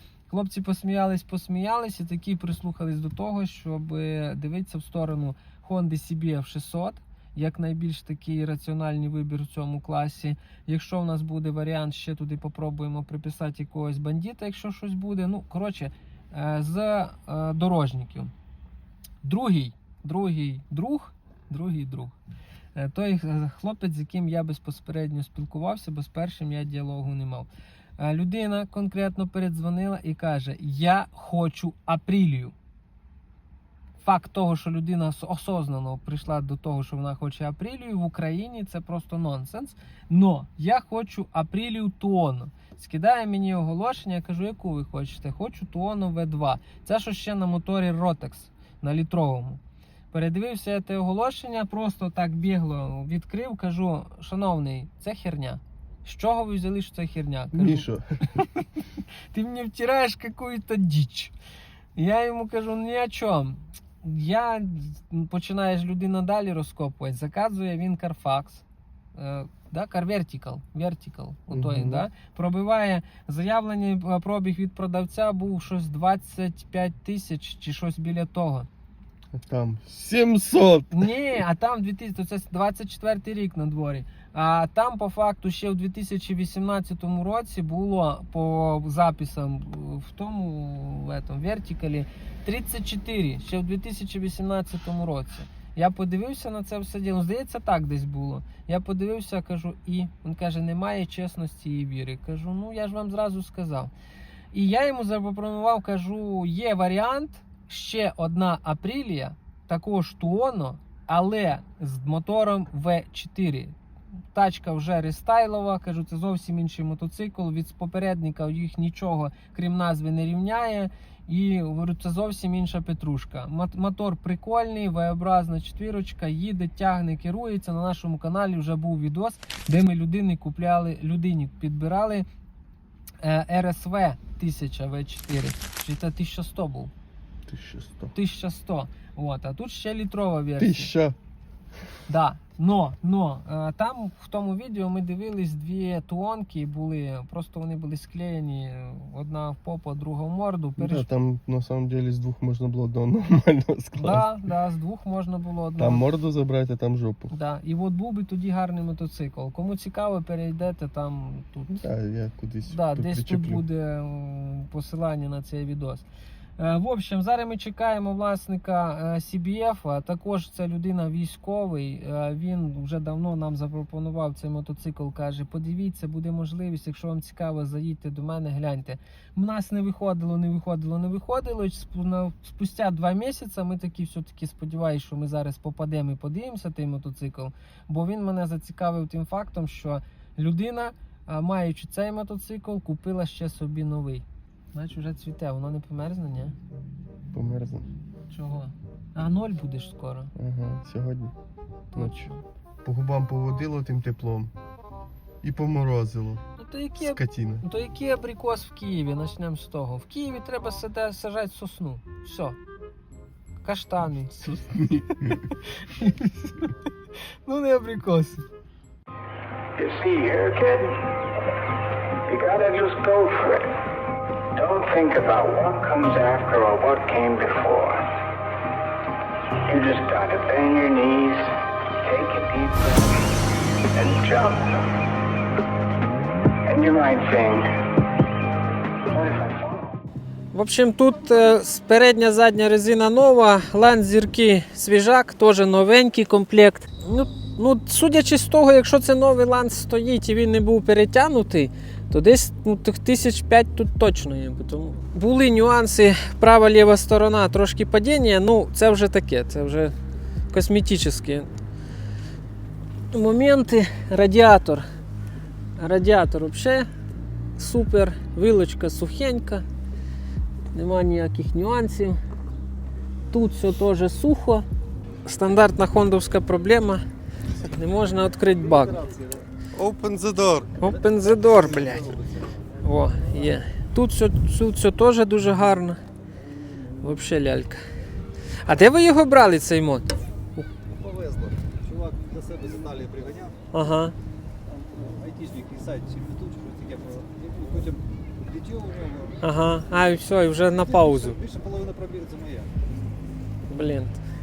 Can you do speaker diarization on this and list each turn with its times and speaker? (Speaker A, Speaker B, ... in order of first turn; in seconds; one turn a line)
Speaker A: 0.3-18.3
Speaker A: 19.2-22.1
Speaker A: 22.7-32.5
Speaker A: 34.0-49.6
Speaker A: 50.1-57.8
Speaker B: 57.5-58.4
Speaker A: 59.3-61.3
Speaker A: 62.0-68.6
Speaker A: 69.1-78.7
Speaker B: 71.5-72.0
Speaker B: 79.3-81.1
Speaker A: 80.9-103.9
Speaker A: 104.5-113.7
Speaker A: 114.3-132.3
Speaker A: 133.2-136.9
Speaker B: 137.5-138.1
Speaker A: 138.1-140.9
Speaker B: 140.6-141.2
Speaker A: 142.1-151.1
Speaker B: 150.8-154.3
Speaker A: 154.0-156.0
Speaker B: 155.8-157.3
Speaker A: 157.3-161.8
Speaker B: 161.7-163.6
Speaker A: 162.7-166.1
Speaker A: 166.6-196.6
Speaker B: 197.3-197.9
Speaker A: 198.3-200.3
Speaker B: 200.3-201.3
Speaker A: 201.9-202.4
Speaker B: 201.9-202.3
Speaker B: 202.8-204.5
Speaker B: 205.4-206.4
Speaker A: 206.6-212.6
Speaker B: 207.0-207.7
Speaker A: 213.6-214.4
Speaker B: 214.3-215.5
Speaker A: 215.8-216.7
Speaker A: 217.4-218.5
Speaker C: 219.8-221.1
Speaker C: 222.2-223.8
Speaker C: 224.5-228.1
Speaker C: 229.7-233.2
Speaker C: 233.9-234.9
Speaker C: 236.7-237.7
Speaker C: 239.1-240.0
Speaker A: 240.5-259.9
Speaker A: 260.5-261.5
Speaker A: 263.1-264.9
Speaker A: 265.8-266.9
Speaker A: 267.6-269.6
Speaker A: 270.7-272.2
Speaker A: 273.3-274.6
Speaker A: 275.2-277.0
Speaker A: 277.7-278.9
Speaker D: 278.5-279.4
Speaker B: 279.7-280.9
Speaker A: 280.8-282.1
Speaker D: 280.8-282.7
Speaker A: 282.8-286.0
Speaker A: 287.0-287.8
Speaker A: 288.6-290.7
Speaker D: 290.9-293.6
Speaker A: 293.7-294.1
Speaker D: 294.7-299.4
Speaker A: 299.4-301.4
Speaker D: 300.8-302.7
Speaker A: 303.7-304.2